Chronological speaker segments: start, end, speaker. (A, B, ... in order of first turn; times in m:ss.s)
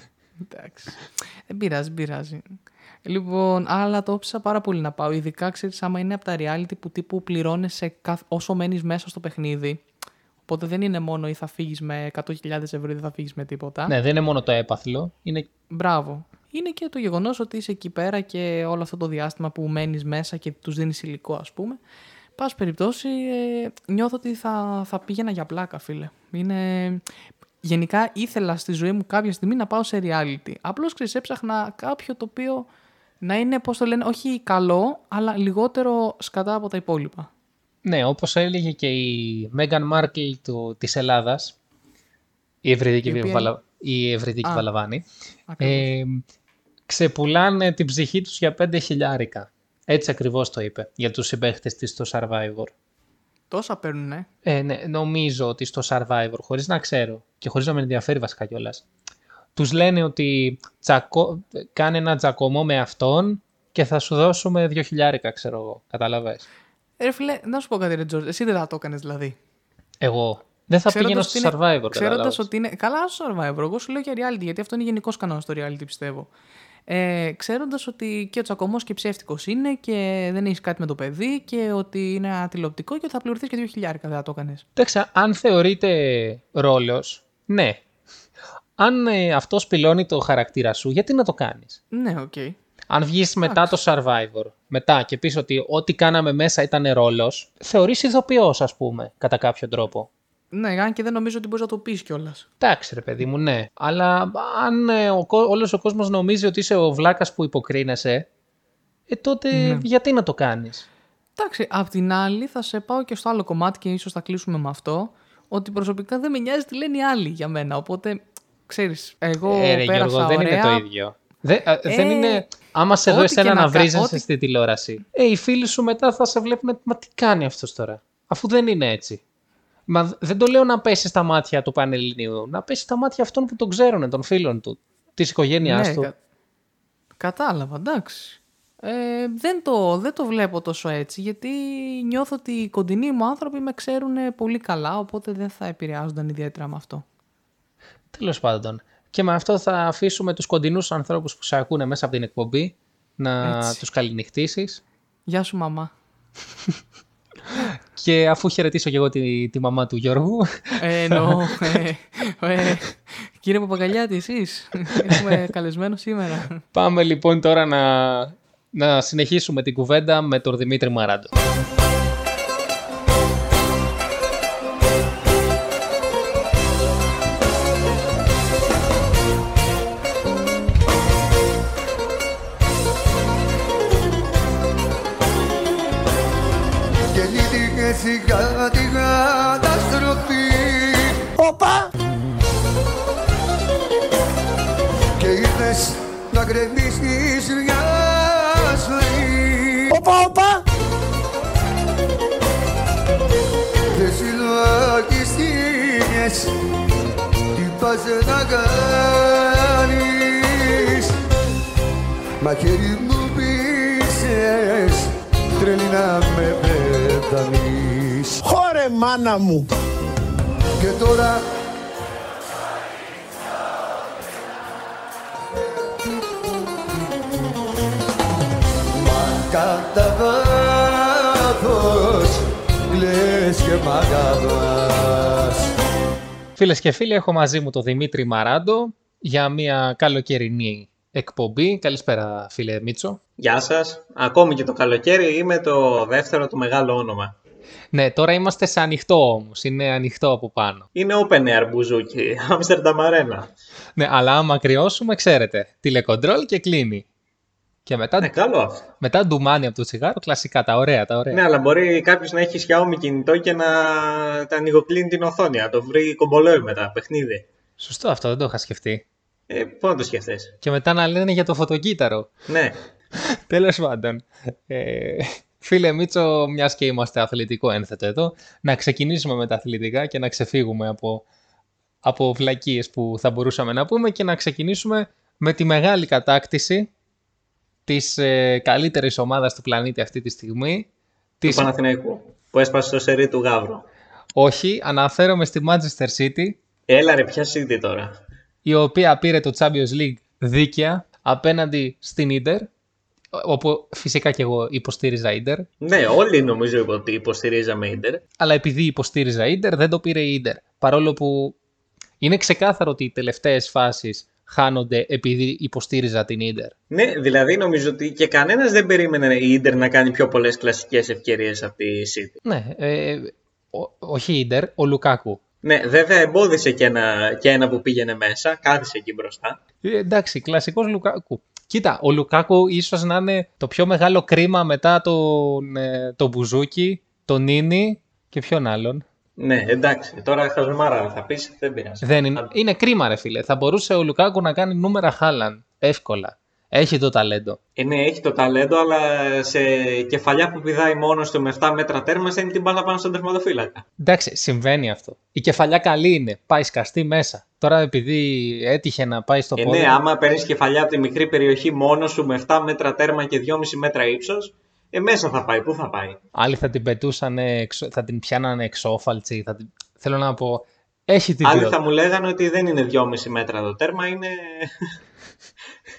0:00.5-0:09.8 A
0:10.5-0:13.9 A
0:13.9-0:15.5 B
0:15.7-0:21.8 A
0:22.4-0:27.0 A
0:27.6-0:32.7 A
0:33.2-0:37.3 A
0:37.8-0:41.6 B
0:42.6-0:45.0 B
0:43.0-0:43.5 A
0:45.5-0:45.9 A
0:45.6-0:46.2 B
0:46.9-0:52.7 B
0:53.5-0:54.3 A
0:54.4-0:58.8 B
0:59.6-1:06.4 B
1:07.0-1:09.4 A
1:10.0-1:12.5 B
1:10.9-1:16.3 A
1:16.9-1:24.6 A
1:24.8-1:27.8 B
1:28.8-1:31.8 B
1:31.9-1:32.6 A
1:32.9-1:40.1 B
1:33.4-1:33.8 A
1:40.5-1:42.5 A
1:42.6-1:48.3 B
1:49.1-1:50.9 B
1:49.5-1:49.9 A
1:51.4-2:00.8 A
1:59.5-2:09.2 B
2:01.9-2:02.4 A
2:03.1-2:04.2 A
2:09.9-2:16.1 B
2:15.6-2:16.2 A
2:17.2-2:27.0 A
2:28.1-2:34.8 B
2:33.4-2:33.8 A
2:35.3-2:35.9 A
2:38.0-2:41.8 B
2:40.8-2:46.6 A
2:46.7-2:51.3 B
3:07.1-3:11.2 C
3:11.4-3:11.9 D
3:15.2-3:19.9 C
3:19.9-3:20.6 D
3:23.9-3:26.5 C
3:27.6-3:31.1 C
3:32.4-3:38.4 C
3:38.4-3:39.7 D
3:40.8-3:41.4 C
3:49.0-3:52.4 C
3:52.9-3:55.6 C
3:56.6-4:03.2 B
4:03.4-4:07.3 E
4:07.9-4:10.9 B
4:11.0-4:13.5 E
4:14.0-4:17.0 B
4:17.9-4:18.3 B
4:18.2-4:18.8 E
4:19.0-4:21.4 B
4:21.3-4:27.5 E
4:27.8-4:29.0 B
4:29.5-4:30.6 E
4:30.6-4:32.3 B
4:32.5-4:32.8 E
4:33.3-4:41.2 B
4:42.0-4:46.9 B
4:47.9-4:50.9 B
4:51.4-4:51.7 B
4:51.5-4:53.9 E
4:54.3-4:56.6 B
4:56.9-4:58.2 E
4:58.6-5:02.7 B
5:03.3-5:05.7 B
5:05.8-5:08.2 E
5:08.4-5:11.6 B
5:12.2-5:16.7 B
5:16.9-5:22.4 E
5:22.4-5:25.4 B
5:25.6-5:29.6 E
5:29.8-5:39.0 B
5:39.4-5:42.5 E
5:42.0-5:47.6 B
5:47.8-5:53.8 E
5:54.0-6:00.0 B
5:59.6-6:06.2 E
6:06.4-6:11.8 B
6:11.4-6:14.7 E